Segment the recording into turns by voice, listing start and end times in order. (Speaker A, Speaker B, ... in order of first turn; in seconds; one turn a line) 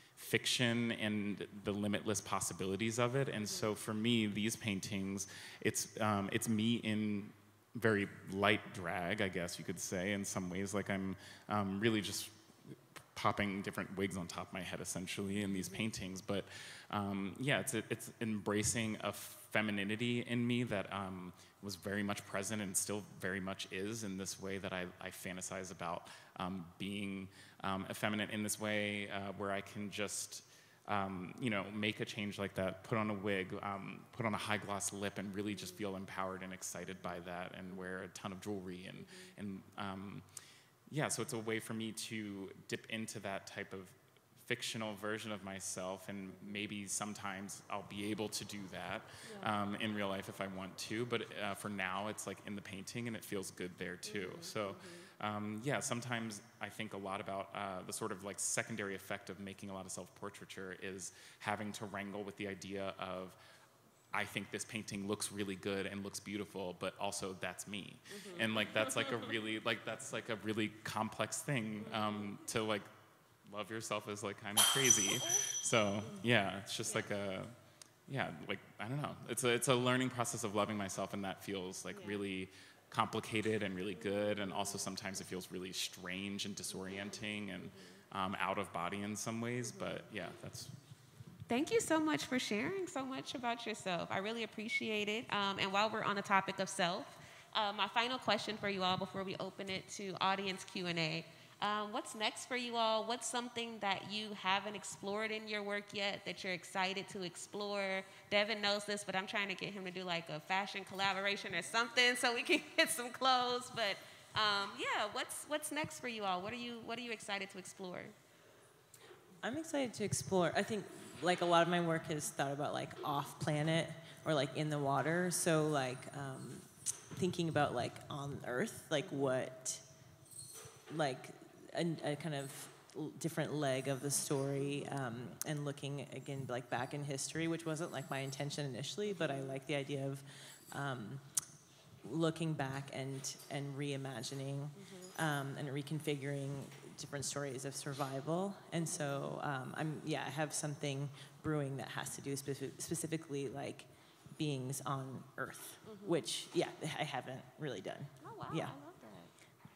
Speaker A: 0.2-40.2
Speaker B: 15.2-15.8
Speaker B: 39.0-39.3
Speaker A: 40.9-63.4
Speaker B: 49.2-49.5
Speaker B: 54.0-55.1
Speaker A: 64.1-72.9
Speaker B: 68.1-69.2
Speaker B: 71.8-72.3
Speaker A: 73.5-77.5
Speaker B: 76.8-77.1
Speaker A: 78.1-90.7
Speaker B: 81.9-82.2
Speaker B: 84.1-84.8
Speaker B: 87.6-88.0
Speaker B: 89.6-90.0
Speaker B: 91.5-118.2
Speaker C: 119.4-129.8
Speaker B: 129.0-129.3
Speaker C: 130.9-141.3
Speaker B: 134.6-134.9
Speaker B: 139.1-139.6
Speaker C: 142.0-158.7
Speaker B: 144.8-145.1
Speaker B: 148.8-149.3
Speaker B: 155.8-156.2
Speaker B: 158.2-159.3